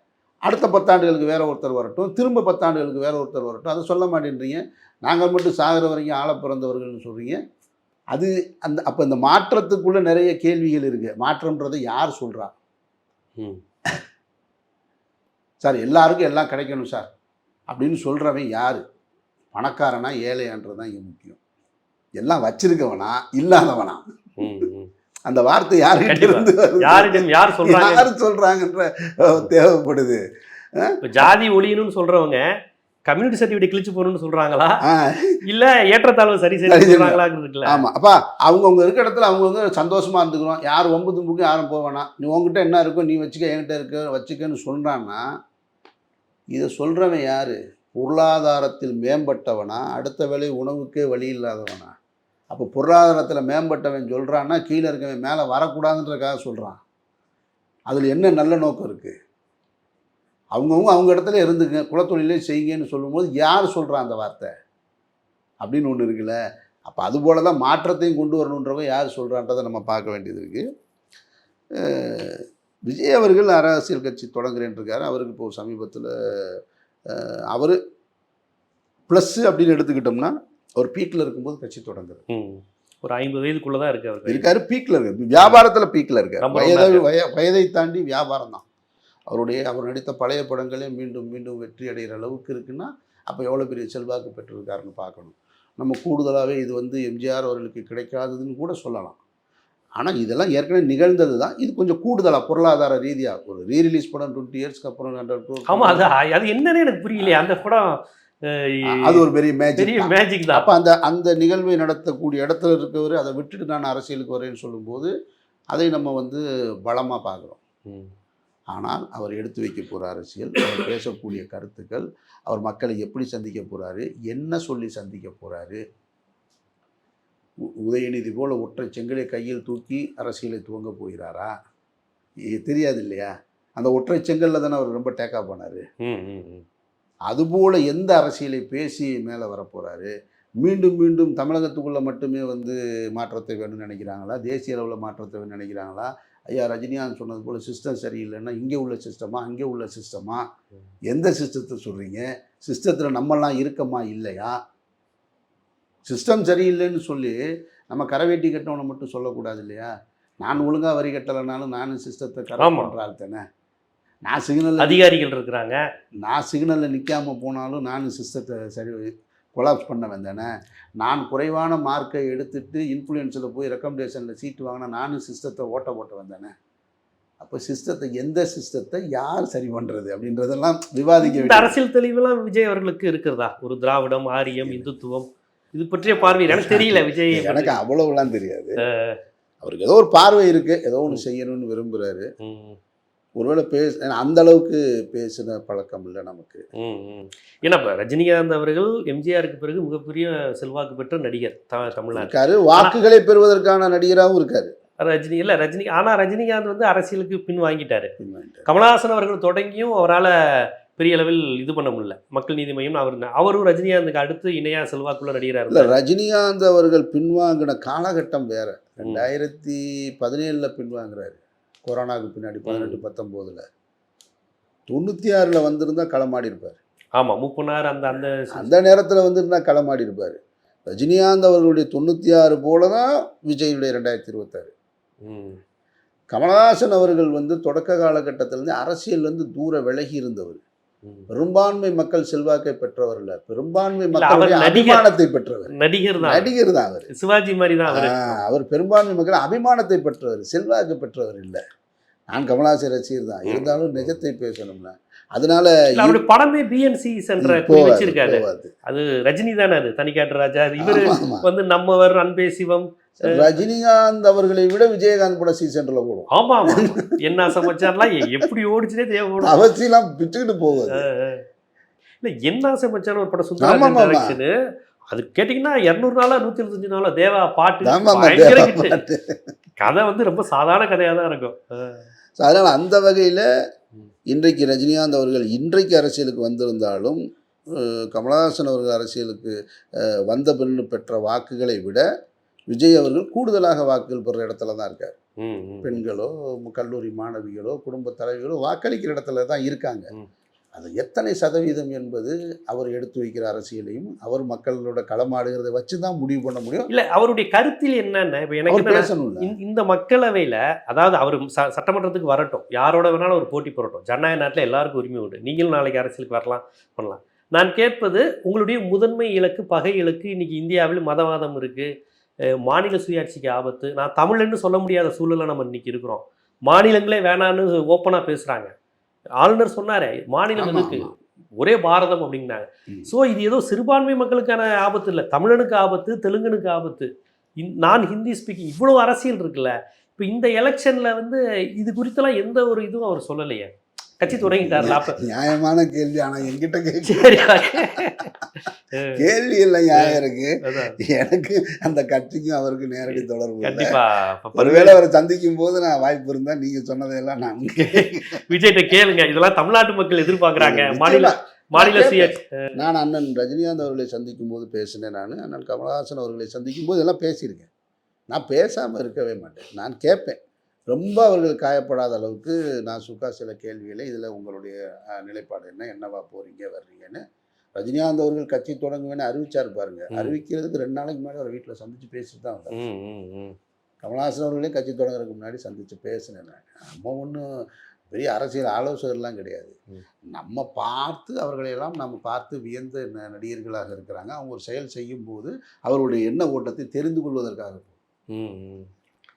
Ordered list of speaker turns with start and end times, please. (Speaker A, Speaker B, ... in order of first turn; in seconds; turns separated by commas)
Speaker A: 0.5-7.4, Speaker A: 8.1-12.5, Speaker A: 15.6-17.1, Speaker A: 17.7-18.8, Speaker A: 19.5-21.4, Speaker A: 22.2-24.5, Speaker B: 24.4-24.9, Speaker A: 25.3-30.2, Speaker B: 26.1-28.1, Speaker A: 30.8-31.3, Speaker B: 31.0-32.4, Speaker B: 33.1-34.8, Speaker A: 34.9-35.4, Speaker B: 35.5-37.8, Speaker A: 36.7-45.2, Speaker A: 46.5-51.9, Speaker A: 52.5-56.8, Speaker A: 57.9-59.1, Speaker A: 60.5-64.5, Speaker A: 65.6-70.6, Speaker A: 71.8-76.6, Speaker A: 77.1-77.8, Speaker A: 79.1-82.2, Speaker B: 82.3-84.5, Speaker A: 84.2-88.6, Speaker B: 85.4-85.6, Speaker B: 86.4-87.0, Speaker A: 89.3-99.2, Speaker A: 100.0-106.1, Speaker B: 105.7-109.2, Speaker A: 107.2-107.6, Speaker A: 108.9-115.1, Speaker B: 109.8-110.7, Speaker A: 115.7-117.6, Speaker A: 118.7-125.8, Speaker A: 127.8-131.5, Speaker A: 132.5-135.8, Speaker B: 136.0-136.6, Speaker A: 137.3-150.4, Speaker A: 151.1-154.5, Speaker A: 156.1-157.4, Speaker A: 157.9-159.9, Speaker A: 160.4-163.4, Speaker B: 162.6-162.9, Speaker A: 164.2-165.0, Speaker B: 164.8-165.8, Speaker A: 166.2-170.5, Speaker A: 171.0-176.5, Speaker A: 177.4-181.7, Speaker B: 181.2-187.7, Speaker A: 184.6-184.9, Speaker A: 186.0-188.8, Speaker B: 188.8-189.2, Speaker A: 189.6-192.3, Speaker B: 192.4-192.8, Speaker A: 193.4-196.6, Speaker B: 196.8-202.9, Speaker A: 202.1-204.7, Speaker B: 205.0-208.1, Speaker A: 208.2-208.7, Speaker B: 208.7-215.9, Speaker A: 215.7-223.6, Speaker B: 219.0-219.2, Speaker B: 222.7-223.0, Speaker A: 224.9-226.8, Speaker B: 227.2-228.8, Speaker A: 228.5-230.4, Speaker A: 230.9-234.7, Speaker B: 235.2-235.6, Speaker A: 236.3-240.6, Speaker A: 241.3-247.1, Speaker B: 244.1-245.1, Speaker B: 245.7-246.5, Speaker B: 247.1-248.4, Speaker A: 247.9-251.6, Speaker A: 252.3-256.2, Speaker B: 253.5-254.2, Speaker B: 255.9-263.4, Speaker A: 257.4-258.7, Speaker A: 260.8-261.4, Speaker A: 263.2-268.0, Speaker B: 266.3-269.6, Speaker A: 269.4-271.1, Speaker B: 270.9-271.4, Speaker B: 272.2-274.5, Speaker A: 273.6-274.4, Speaker B: 275.1-279.0, Speaker A: 277.8-279.4, Speaker B: 279.8-282.1, Speaker A: 282.4-283.4, Speaker A: 284.3-287.2, Speaker A: 287.7-292.0, Speaker A: 292.7-295.1, Speaker B: 295.4-296.0, Speaker A: 295.8-300.1, Speaker A: 300.7-306.9, Speaker B: 306.9-321.9, Speaker A: 308.7-309.5, Speaker B: 322.6-328.7, Speaker B: 329.4-345.2, Speaker A: 330.6-331.1, Speaker A: 344.2-348.1, Speaker B: 347.0-349.2, Speaker A: 349.1-354.0, Speaker B: 349.9-351.0, Speaker B: 353.1-355.0, Speaker A: 354.5-358.5, Speaker B: 357.9-362.7, Speaker A: 360.5-367.7, Speaker A: 368.3-370.4, Speaker A: 370.9-377.2, Speaker A: 377.8-382.7, Speaker B: 382.7-383.6, Speaker A: 384.0-387.4, Speaker A: 388.1-389.8, Speaker A: 390.3-398.0, Speaker B: 398.3-398.9